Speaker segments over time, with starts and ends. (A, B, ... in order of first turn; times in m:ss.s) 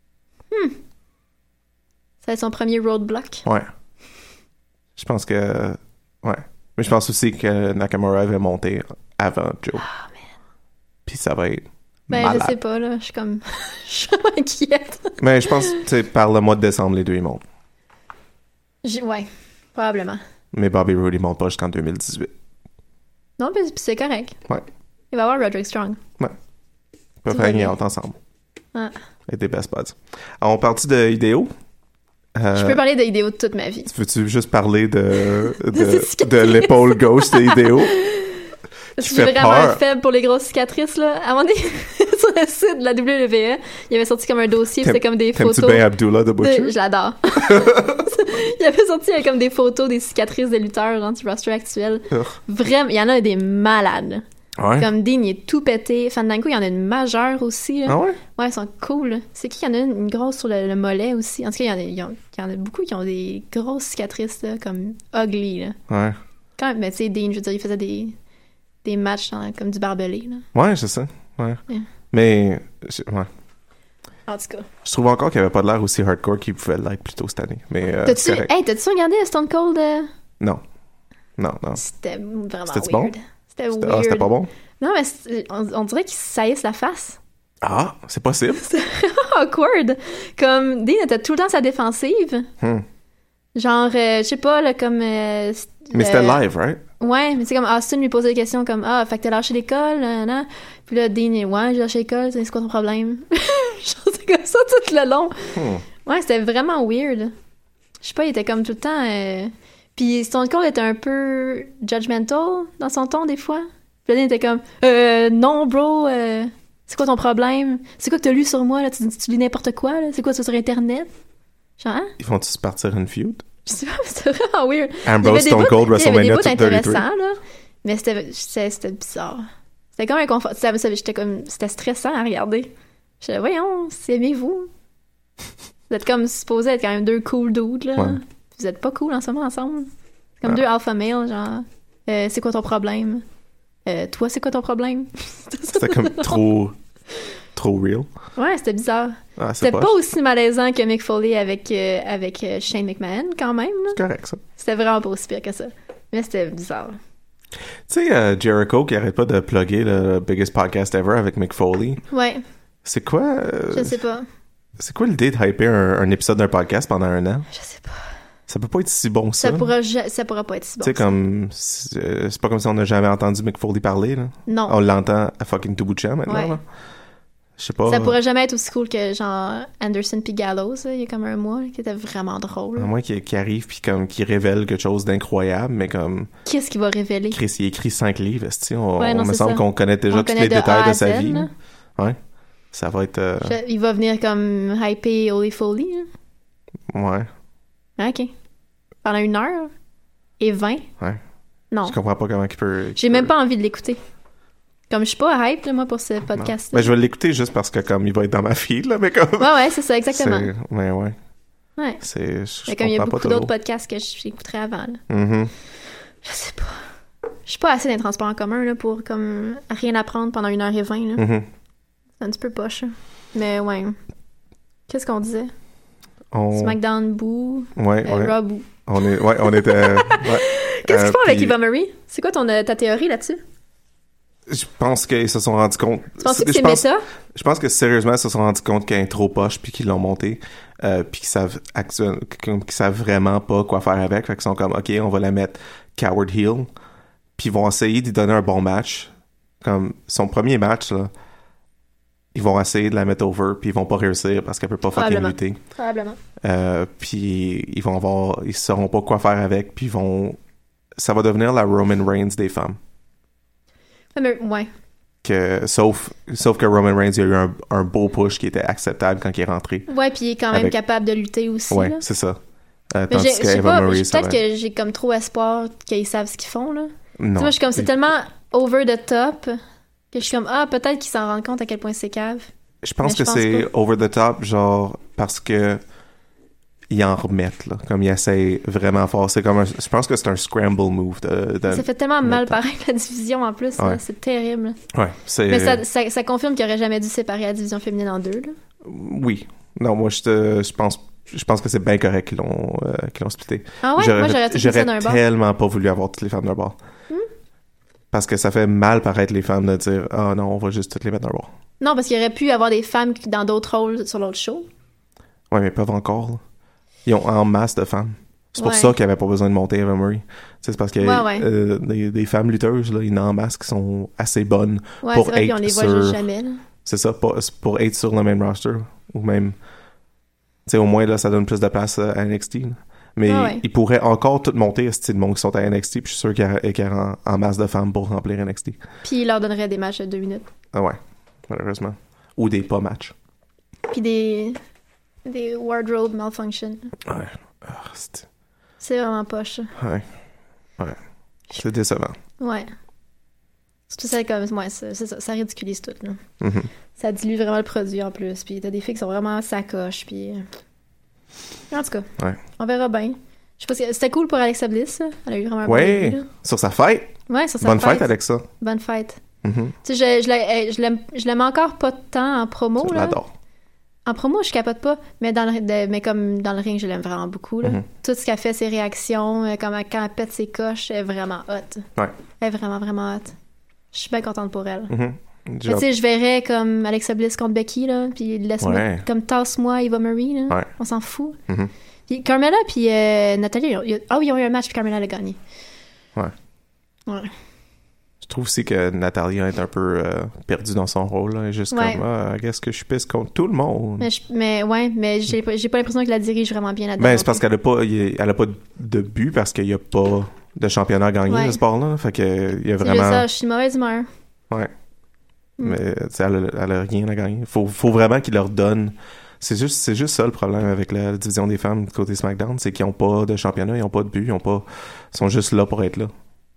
0:00.5-0:00.8 A
0:02.2-0:03.4 A
0:03.4-0:03.7 B
0:05.0-0:09.8 B
0:09.8-0:10.1 A
0:11.0-0:12.6 B
0:12.1-0:15.8 A
0:15.2-0:17.4 B
0:18.8-0:20.2 A
0:20.5-0:22.3 B
0:23.4-0:24.4 A
0:25.1-0:26.0 A
0:27.2-0:28.2 B
0:27.3-0:27.7 A
0:29.3-0:31.5 B
0:32.3-0:32.8 B
0:32.5-0:33.9 A
0:33.9-0:38.0 B
0:35.3-0:45.8 A
0:39.0-0:39.8 B
0:44.8-0:46.7 B
0:46.4-0:54.2 A
0:47.4-0:48.0 B
0:52.1-0:52.4 B
0:54.6-0:54.9 B
0:54.8-1:05.8 A
0:57.9-0:58.2 B
1:05.9-1:06.2 B
1:06.6-1:08.2 A
1:08.8-1:10.4 A
1:10.5-1:13.3 B
1:14.3-1:14.7 A
1:14.8-1:18.5 B
1:18.0-1:20.1 A
1:21.4-1:21.8 B
1:21.8-1:27.2 A
1:22.7-1:23.1 B
1:23.7-1:24.5 B
1:27.6-1:28.6 B
1:28.6-1:32.5 A
1:33.6-1:36.4 A
1:35.9-1:36.8 B
1:37.0-1:47.3 A
1:45.5-1:45.8 B
1:48.0-2:01.1 A
2:01.8-2:02.1 A
2:02.2-2:03.4 B
2:03.6-2:09.4 A
2:05.0-2:07.0 B
2:10.0-2:14.7 A
2:15.9-2:23.2 A
2:23.8-2:26.4 A
2:25.7-2:26.8 B
2:27.5-2:28.1 B
2:28.4-2:34.0 A
2:29.4-2:30.0 B
2:33.9-2:34.4 B
2:34.6-2:37.0 A
2:37.9-2:42.0 B
2:42.1-2:42.4 A
2:42.8-2:44.0 B
2:43.7-2:44.2 A
2:44.8-2:47.5 B
2:47.5-2:48.0 A
2:48.5-2:49.7 B
2:49.4-2:51.1 A
2:50.8-2:56.6 B
2:54.5-2:54.8 A
2:56.3-2:56.6 A
2:57.6-2:58.2 B
2:57.8-3:02.9 A
3:02.8-3:06.3 B
3:06.4-3:07.4 A
3:07.3-3:12.2 B
3:09.0-3:11.5 A
3:12.7-3:13.6 B
3:13.4-3:16.1 A
3:16.9-3:17.3 B
3:18.0-3:18.3 A
3:19.0-3:19.7 A
3:20.4-3:20.9 A
3:21.7-3:22.0 A
3:21.8-3:23.3 B
3:23.0-3:24.0 A
3:24.9-3:26.9 A
3:26.4-3:29.6 B
3:29.4-3:30.5 A
3:30.1-3:31.2 B
3:31.8-3:32.0 A
3:32.0-3:33.5 B
3:32.7-3:35.0 A
3:35.1-3:35.5 B
3:36.2-3:36.8 A
3:37.4-3:41.2 A
3:41.2-3:41.5 B
3:42.2-3:44.0 A
3:44.9-3:45.5 A
3:46.3-3:46.8 B
3:46.5-3:53.4 A
3:47.8-3:51.6 B
3:54.5-4:06.7 B
3:56.2-3:57.0 A
4:07.4-4:09.1 B
4:09.6-4:11.1 B
4:12.3-4:15.6 B
4:14.9-4:16.2 A
4:16.4-4:20.4 B
4:21.0-4:22.8 B
4:24.1-4:24.7 A
4:25.2-4:29.9 B
4:29.9-4:32.0 A
4:31.7-4:32.4 B
4:32.9-4:34.4 B
4:33.1-4:39.6 A
4:37.2-4:37.9 B
4:40.1-4:42.5 A
4:42.8-4:45.8 B
4:43.0-4:43.7 A
4:46.9-4:52.6 B
4:51.7-4:54.8 A
4:54.9-4:55.8 B
4:55.5-4:58.5 A
4:58.8-5:06.8 B
5:03.8-5:05.2 A
5:08.1-5:11.5 B
5:11.8-5:14.7 A
5:15.5-5:16.4 B
5:17.0-5:26.2 B
5:18.6-5:18.9 A
5:21.0-5:21.5 A
5:25.0-5:26.6 A
5:26.8-5:29.6 B
5:30.6-5:38.8 B
5:33.2-5:33.6 A
5:39.0-5:40.5 A
5:40.7-5:43.1 B
5:43.9-5:44.6 A
5:45.2-5:46.9 A
5:47.0-5:48.3 B
5:48.8-5:49.7 A
5:49.8-5:50.1 B
5:51.5-5:52.2 B
5:52.4-5:52.7 A
5:53.9-5:56.2 A
5:56.4-5:56.7 B
5:57.0-6:00.4 A
6:01.7-6:06.3 A
6:05.6-6:08.4 B
6:07.3-6:09.2 A
6:09.4-6:09.7 B
6:09.8-6:13.2 A
6:12.8-6:13.3 B
6:14.0-6:21.8 A
6:22.4-6:23.3 A
6:23.9-6:24.9 A
6:24.9-6:25.9 B
6:25.6-6:31.4 A
6:28.6-6:29.0 B
6:32.1-6:35.4 A
6:37.1-6:37.3 A
6:38.2-6:44.1 B
6:41.7-6:42.0 A
6:44.0-6:47.4 A
6:47.0-6:53.2 B
6:51.3-6:51.6 A
6:52.8-6:54.1 A
6:55.6-7:06.1 B